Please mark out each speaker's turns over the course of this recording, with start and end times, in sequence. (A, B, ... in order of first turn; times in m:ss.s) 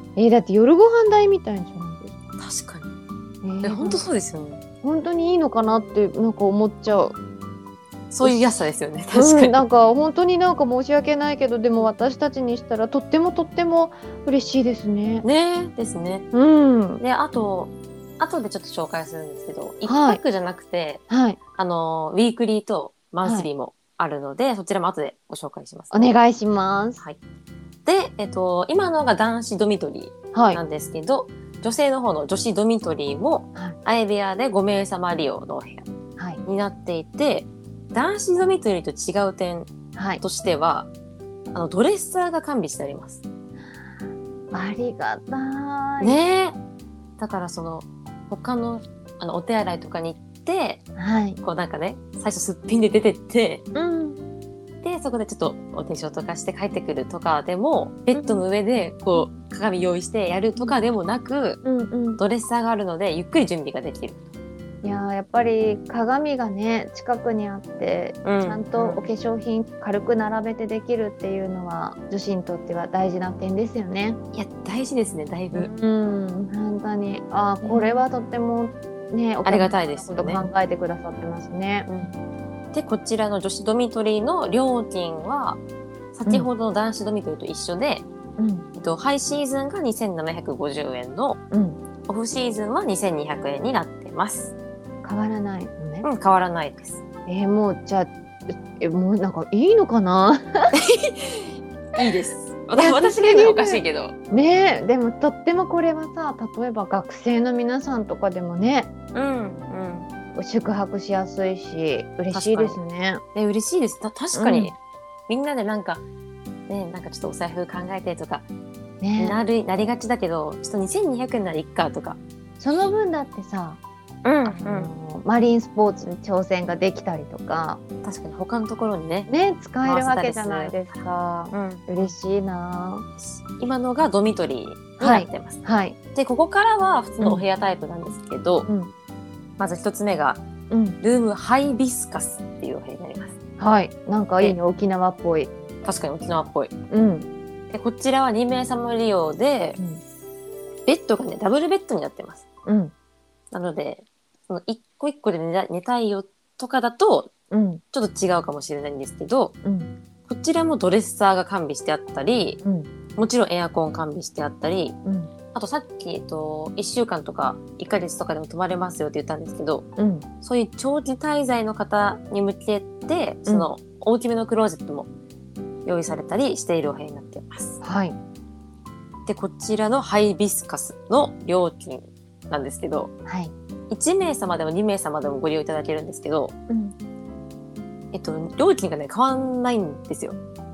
0:00.2-0:02.2 A
0:02.4-0:02.9 B
0:03.4-0:04.0 A
0:03.6-0:04.6 B
0:04.8-0:07.2 A
0:08.1-0:09.6 B
0:08.2-0:08.6 A
0:09.1-0:15.2 A
0:15.2-0:16.3 B
0:16.3-0:17.0 A
0:17.0-0:21.0 B
0:19.9-0:20.2 A
0:21.1-0:21.4 A
0:21.6-0:26.1 B
0:23.2-0:23.5 A
0:25.9-0:27.0 A
0:27.9-0:35.9 B
0:30.3-0:30.6 A
0:36.4-0:39.7 B
0:40.0-0:40.2 A
0:40.2-0:40.9 B
0:41.5-0:43.2 B
0:44.5-0:46.2 A
0:46.0-0:46.6 B
0:47.2-0:50.8 B
0:51.0-0:51.4 A
0:51.4-0:53.7 B
0:53.7-0:54.2 A
0:54.8-1:01.6 B
0:58.1-0:58.4 A
1:01.6-1:02.2 A
1:02.2-1:04.3 B
1:04.8-1:14.2 A
1:08.2-1:09.0 B
1:14.3-1:15.7 B
1:15.5-1:21.9 A
1:17.6-1:18.0 B
1:19.4-1:20.5 B
1:21.9-1:22.2 B
1:22.7-1:25.6 B
1:26.1-1:28.0 B
1:28.4-1:28.7 A
1:28.8-1:31.4 B
1:31.5-1:31.8 A
1:32.1-1:34.5 B
1:35.0-1:36.1 A
1:36.0-1:37.0 B
1:37.3-1:40.7 A
1:40.7-1:44.2 B
1:42.8-1:48.9 A
1:49.1-1:50.1 B
1:50.3-1:53.2 A
1:52.3-1:52.8 B
1:53.4-1:54.8 B
1:54.3-1:54.7 A
1:55.3-1:56.0 B
1:56.7-1:58.5 B
1:59.0-1:59.4 A
1:59.2-2:02.2 B
2:02.6-2:03.8 A
2:04.2-2:04.9 B
2:04.4-2:07.8 A
2:08.0-2:09.3 B
2:09.3-2:13.1 A
2:09.8-2:10.8 B
2:11.5-2:12.1 B
2:13.2-2:15.6 B
2:15.0-2:16.0 A
2:16.1-2:18.7 B
2:17.2-2:17.5 A
2:18.6-2:18.9 A
2:19.6-2:20.4 B
2:20.7-2:21.0 A
2:21.0-2:23.3 B
2:23.6-2:25.5 A
2:25.8-2:26.7 B
2:26.9-2:27.3 A
2:27.7-2:29.8 B
2:30.9-2:32.4 B
2:32.7-2:32.9 A
2:33.5-2:37.3 B
2:37.5-2:37.8 A
2:37.9-2:39.6 B
2:39.6-2:39.9 A
2:40.3-2:42.6 B
2:42.6-2:42.9 A
2:43.2-2:45.0 B
2:45.0-2:45.3 A
2:45.5-2:49.9 B
2:50.0-2:50.3 A
2:50.4-2:55.1 B
2:55.8-2:57.8 B
2:57.8-2:58.2 A
2:59.3-3:03.1 B
3:03.3-3:03.5 A
3:03.9-3:06.6 B
3:06.7-3:07.0 A
3:08.1-3:10.4 B